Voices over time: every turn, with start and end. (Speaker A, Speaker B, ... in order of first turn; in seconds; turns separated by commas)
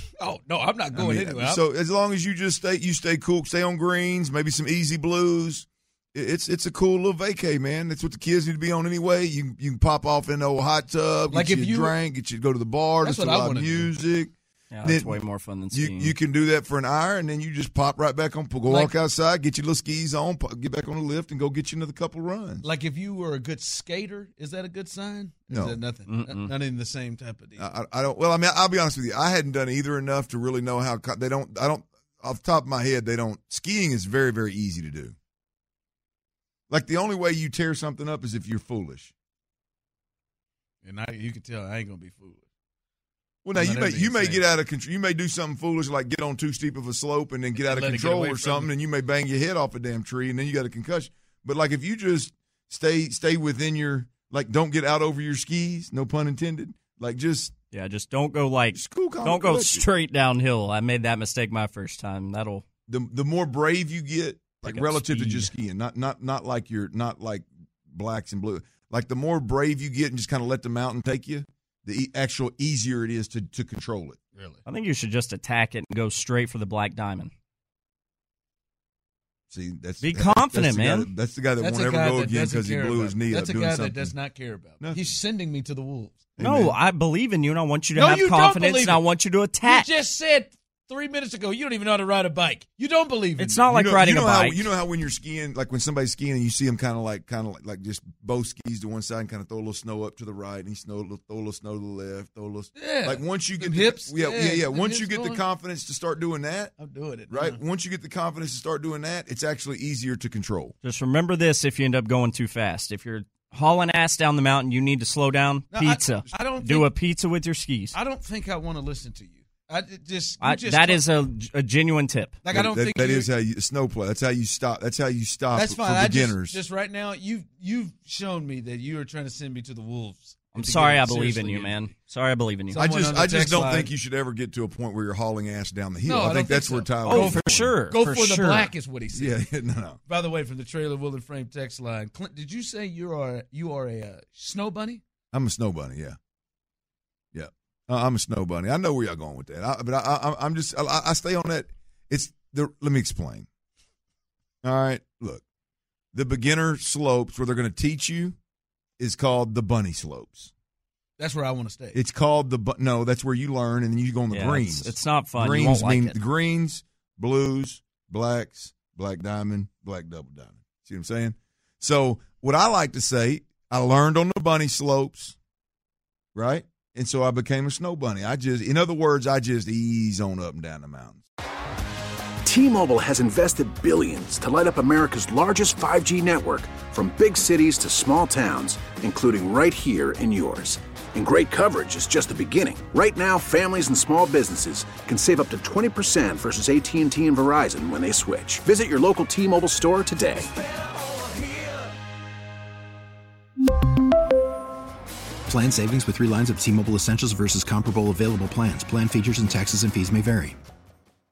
Speaker A: 0.2-1.6, Speaker B: 0.9-15.2, Speaker A: 11.3-12.0, Speaker A: 13.0-13.9, Speaker C: 14.7-16.1, Speaker B: 15.7-22.7, Speaker A: 18.7-18.9, Speaker A: 22.6-27.7, Speaker B: 25.5-25.8, Speaker C: 26.1-26.5, Speaker B: 27.6-35.1, Speaker B: 36.7-39.1, Speaker A: 40.8-42.4, Speaker B: 43.4-57.5, Speaker A: 43.5-44.5, Speaker A: 47.5-48.7, Speaker C: 57.7-62.6, Speaker B: 58.7-59.9, Speaker B: 62.9-74.2, Speaker C: 64.6-65.5, Speaker A: 74.3-74.6, Speaker C: 74.7-77.3, Speaker B: 79.5-84.1, Speaker C: 80.0-81.1, Speaker A: 81.6-86.3, Speaker B: 84.8-85.2, Speaker B: 86.4-86.8, Speaker C: 86.4-89.9, Speaker A: 88.0-89.0, Speaker A: 89.6-93.7, Speaker C: 93.4-94.7, Speaker B: 93.7-106.7, Speaker A: 102.8-105.4, Speaker A: 106.8-107.6, Speaker B: 107.3-110.8, Speaker C: 110.8-118.0, Speaker A: 115.7-116.9, Speaker A: 117.9-121.0, Speaker C: 120.4-122.4, Speaker A: 122.4-123.3, Speaker B: 122.5-126.6, Speaker A: 125.5-131.8, Speaker C: 130.5-132.8, Speaker B: 132.7-137.7, Speaker A: 132.8-133.9, Speaker A: 136.0-139.5, Speaker C: 137.0-138.7, Speaker B: 139.1-140.0, Speaker A: 140.1-145.0, Speaker B: 145.3-146.2, Speaker B: 147.3-153.5, Speaker B: 154.6-155.4, Speaker B: 156.1-158.3, Speaker B: 159.0-160.5, Speaker A: 161.2-162.0, Speaker B: 161.9-175.3, Speaker C: 164.3-166.2, Speaker B: 176.3-181.2, Speaker D: 182.4-200.5, Speaker E: 205.5-210.6